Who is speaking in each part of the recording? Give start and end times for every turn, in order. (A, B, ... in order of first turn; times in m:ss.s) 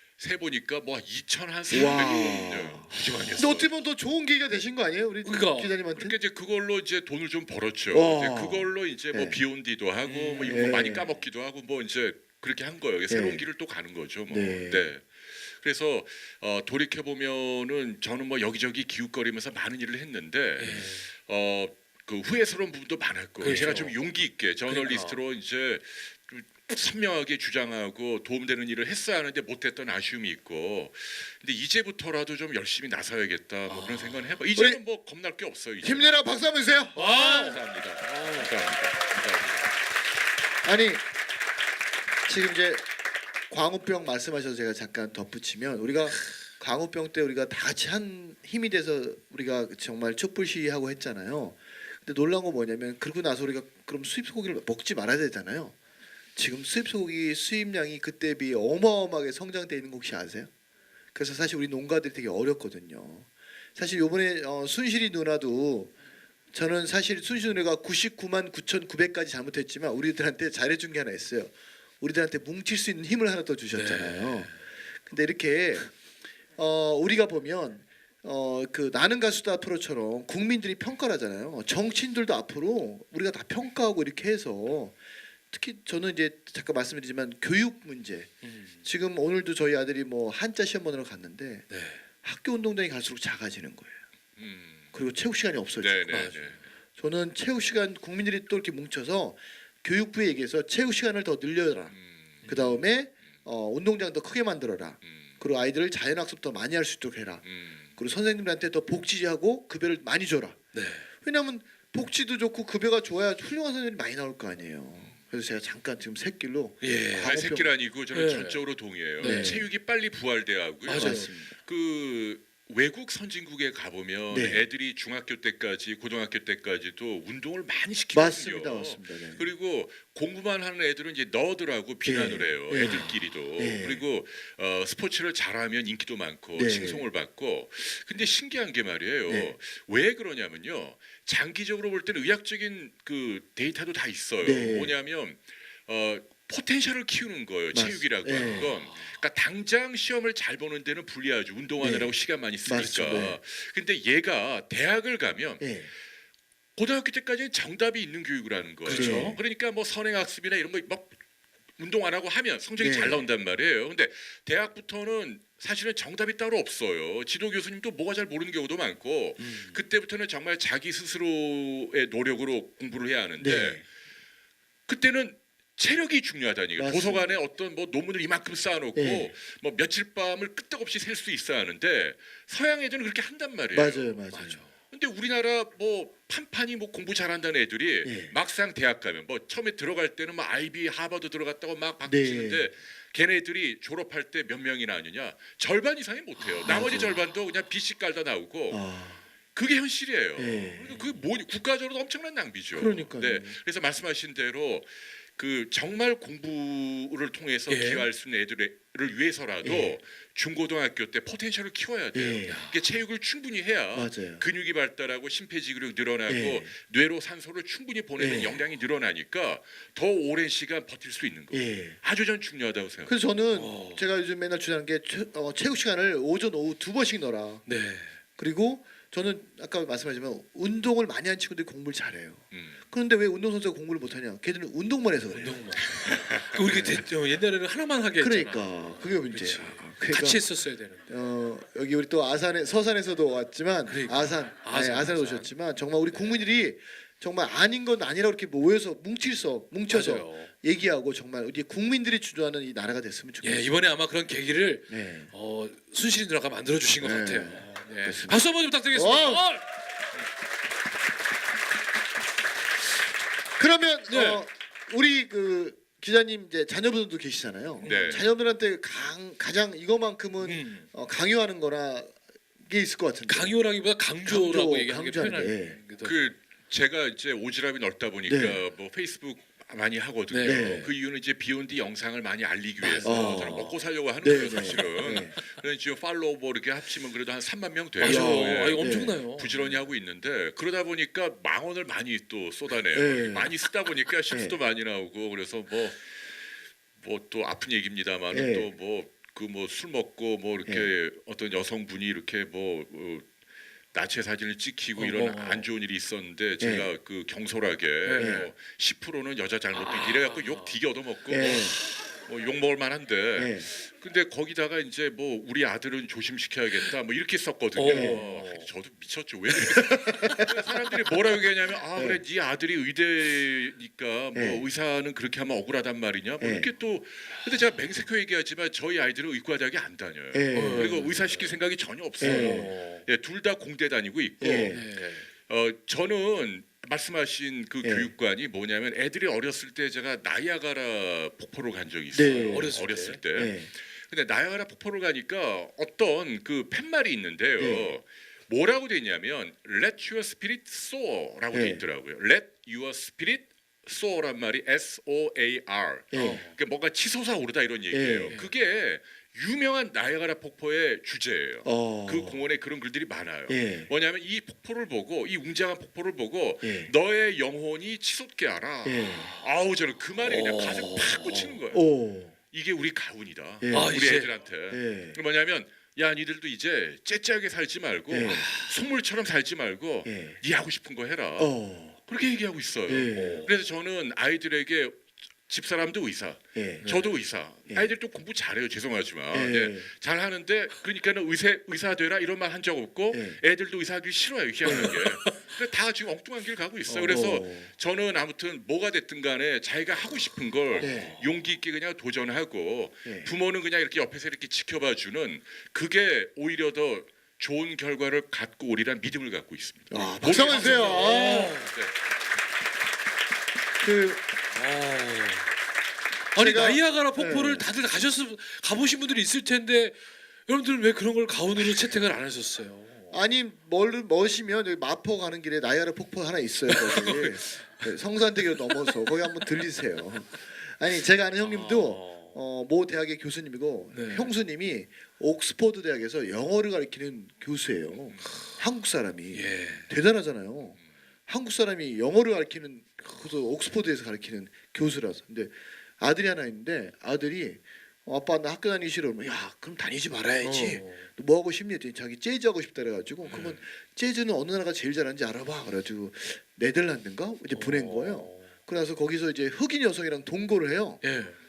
0:00.2-0:03.7 A
0:01.7-0:06.2 B
0:05.2-0:05.7 C
0:06.0-0:36.2 A
0:07.9-0:09.4 B
0:10.0-0:10.7 C
0:10.4-0:11.1 B
0:13.1-0:13.5 B
0:14.3-0:14.9 B
0:20.6-0:21.1 C
0:23.4-0:24.0 C
0:24.7-0:25.2 C
0:33.7-0:34.4 C
0:34.6-0:34.8 B
0:35.8-0:37.6 B
0:36.9-0:39.7 A
0:37.0-0:38.5 C
0:40.6-0:41.0 B
0:42.3-0:42.8 B
0:43.5-0:55.8 B
0:56.4-1:00.5 B
1:01.1-1:05.9 B
1:06.5-1:14.5 B
1:13.7-1:14.6 C
1:15.1-1:15.9 B
1:16.6-1:31.7 B
1:28.4-1:28.9 C
1:31.7-1:32.0 C
1:32.2-1:34.0 B
1:34.4-1:34.9 A
1:34.9-1:36.2 B
1:35.8-1:36.6 A
1:36.1-1:36.6 C
1:37.0-1:41.9 B
1:41.9-1:42.5 A
1:42.4-1:42.8 C
1:42.5-1:47.4 B
1:45.0-1:45.4 A
1:47.4-1:47.9 A
1:48.0-1:50.6 B
1:50.7-1:51.1 C
1:51.2-1:57.7 B
1:56.8-1:57.4 C
1:57.2-2:35.8 A
1:58.1-1:59.6 C
1:59.2-1:59.7 B
2:00.8-2:01.3 C
2:00.9-2:01.5 B
2:04.3-2:04.6 B
2:08.1-2:09.5 B
2:12.0-2:14.0 B
2:16.6-2:17.1 B
2:19.3-2:19.5 B
2:24.4-2:25.0 B
2:27.7-2:28.7 B
2:28.4-2:29.2 C
2:31.8-2:32.1 B
2:32.6-2:33.4 B
2:35.6-2:35.9 B
2:36.8-2:41.2 A
2:38.8-2:39.4 C
2:38.9-2:39.4 B
2:41.8-2:53.9 A
2:42.8-2:43.3 B
2:49.4-2:49.8 C
2:53.4-2:53.8 B
2:54.9-3:04.2 A
2:56.8-2:57.3 B
2:59.0-2:59.3 B
3:03.7-3:04.6 B
3:04.3-3:04.7 C
3:04.9-3:18.8 A
3:08.0-3:08.4 B
3:12.0-3:12.7 B
3:16.5-3:16.8 C
3:16.6-3:17.2 B
3:18.7-3:19.2 B
3:19.5-3:43.2 A
3:20.4-3:21.0 B
3:20.9-3:21.2 C
3:22.8-3:23.6 B
3:27.7-3:28.1 C
3:29.6-3:30.0 B
3:32.1-3:32.6 B
3:32.4-3:32.8 C
3:33.9-3:34.4 B
3:36.3-3:36.7 B
3:38.2-3:38.6 B
3:41.5-3:42.0 B
3:43.0-3:47.7 B
3:43.5-3:44.0 C
3:47.6-3:48.2 C
3:48.4-3:55.6 B
3:52.5-3:52.8 A
3:55.3-4:01.1 C
3:56.0-3:57.0 A
3:56.7-3:57.0 B
3:58.2-4:00.5 B
4:01.1-4:13.7 B
4:03.9-4:05.5 C
4:09.8-4:10.5 C
4:13.4-4:19.7 C
4:14.9-4:15.3 B
4:17.0-4:19.5 B
4:23.6-4:33.6 B
4:24.1-4:24.4 C
4:27.8-4:28.2 C
4:27.8-4:28.3 A
4:30.4-4:30.9 C
4:33.3-4:36.4 C
4:34.2-4:35.8 B
4:36.0-4:56.2 A
4:38.3-4:38.6 B
4:40.3-4:40.9 C
4:40.4-4:40.9 B
4:42.8-4:43.9 C
4:43.0-4:43.7 B
4:44.2-4:45.4 B
4:48.0-4:49.9 C
4:48.0-4:49.2 B
4:52.9-4:53.6 B
4:54.3-4:54.6 B
4:57.0-5:03.3 A
4:58.3-4:58.7 B
5:00.7-5:00.9 B
5:03.9-6:11.8 A
5:05.0-5:05.7 C
5:06.6-5:06.9 B
5:08.0-5:08.5 C
5:08.2-5:08.5 B
5:09.7-5:10.8 C
5:11.3-5:11.8 B
5:13.4-5:13.7 B
5:17.8-5:18.7 C
5:17.9-5:18.2 B
5:19.7-5:20.6 B
5:22.0-5:22.2 B
5:24.3-5:24.6 B
5:26.4-5:26.7 B
5:30.3-5:31.0 B
5:30.5-5:31.6 C
5:32.2-5:33.1 C
5:32.2-5:32.7 B
5:34.4-5:34.8 B
5:34.6-5:35.3 C
5:37.8-5:38.1 B
5:42.1-5:42.8 B
5:42.2-5:43.2 C
5:43.3-5:43.7 B
5:47.6-5:47.9 B
5:51.5-5:51.8 B
5:56.1-5:56.4 B
5:56.2-5:56.6 C
5:57.9-5:58.4 B
6:01.6-6:02.5 B
6:03.5-6:03.9 B
6:06.6-6:06.9 B
6:08.8-6:09.3 B
6:10.2-6:11.6 C
6:11.7-6:12.4 B
6:12.5-6:52.0 A
6:13.6-6:14.1 B
6:13.7-6:14.4 C
6:14.7-6:15.2 B
6:18.1-6:18.5 B
6:18.2-6:18.8 C
6:20.0-6:20.4 B
6:21.4-6:22.0 B
6:22.9-6:23.5 B
6:23.1-6:23.5 C
6:26.6-6:26.9 B
6:26.8-6:27.2 C
6:29.3-6:29.9 B
6:33.1-6:33.4 B
6:34.7-6:35.0 B
6:34.7-6:35.5 C
6:36.9-6:37.7 B
6:40.8-6:41.4 C
6:40.8-6:41.2 B
6:43.0-6:43.3 B
6:49.9-6:51.6 B
6:50.2-6:51.8 C
6:53.8-6:54.3 B
6:54.5-6:55.5 C
6:56.3-7:03.2 C
6:56.4-6:57.7 B
7:03.1-7:41.0 B
7:06.7-7:07.9 C
7:08.6-7:09.5 C
7:11.4-7:12.4 C
7:13.9-7:14.4 C
7:18.1-7:18.4 A
7:19.3-7:19.9 C
7:30.4-7:31.1 C
7:33.2-7:33.6 A
7:33.3-7:33.6 C
7:37.5-7:38.5 C
7:41.0-7:41.4 C